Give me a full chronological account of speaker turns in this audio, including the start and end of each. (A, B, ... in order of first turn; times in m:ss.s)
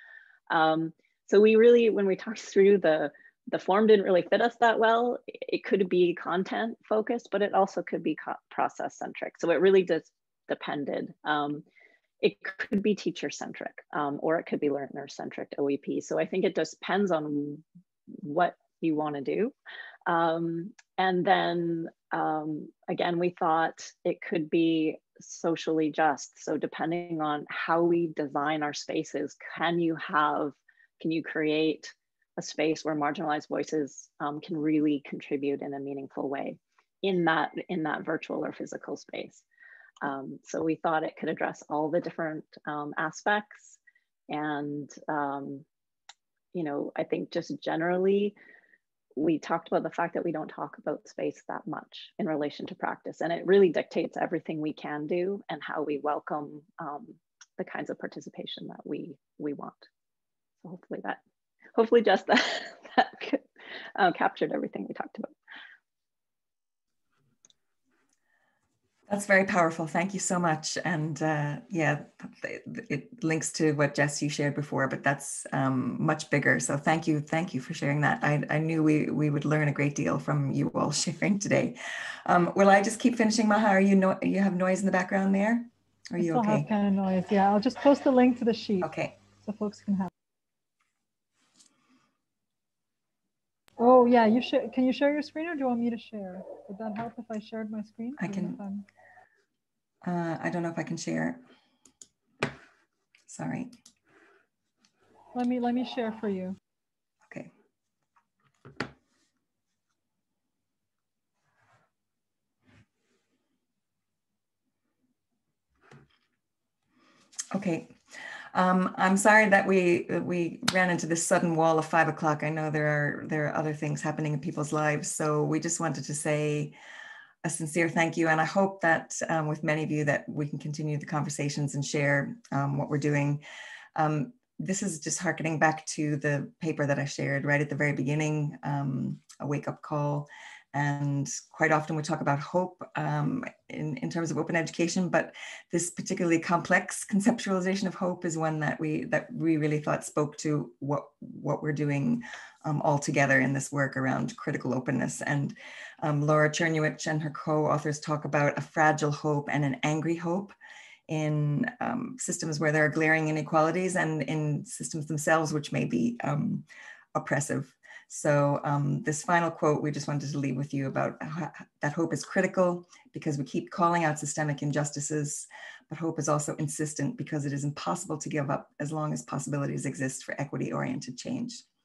0:00.5-0:11.6 A
0:12.2-0:17.6 A
0:18.2-0:19.5 A
0:20.0-0:39.4 A
0:40.0-0:43.8 A
0:44.3-0:45.6 A
0:46.5-0:48.4 A
0:49.2-0:59.8 A
1:00.6-1:01.2 A
1:01.7-1:03.4 A
1:04.0-1:05.3 A
1:09.1-1:26.7 B
1:26.2-1:30.1 C
1:28.8-1:29.2 B
1:33.8-1:38.8 C
1:38.2-1:38.6 B
1:40.0-1:41.4 B
1:43.3-1:43.7 B
1:45.3-1:46.6 C
1:57.5-1:58.0 B
1:58.5-2:06.7 B
2:07.4-2:13.4 B
2:13.9-2:40.5 B
2:41.1-3:01.6 B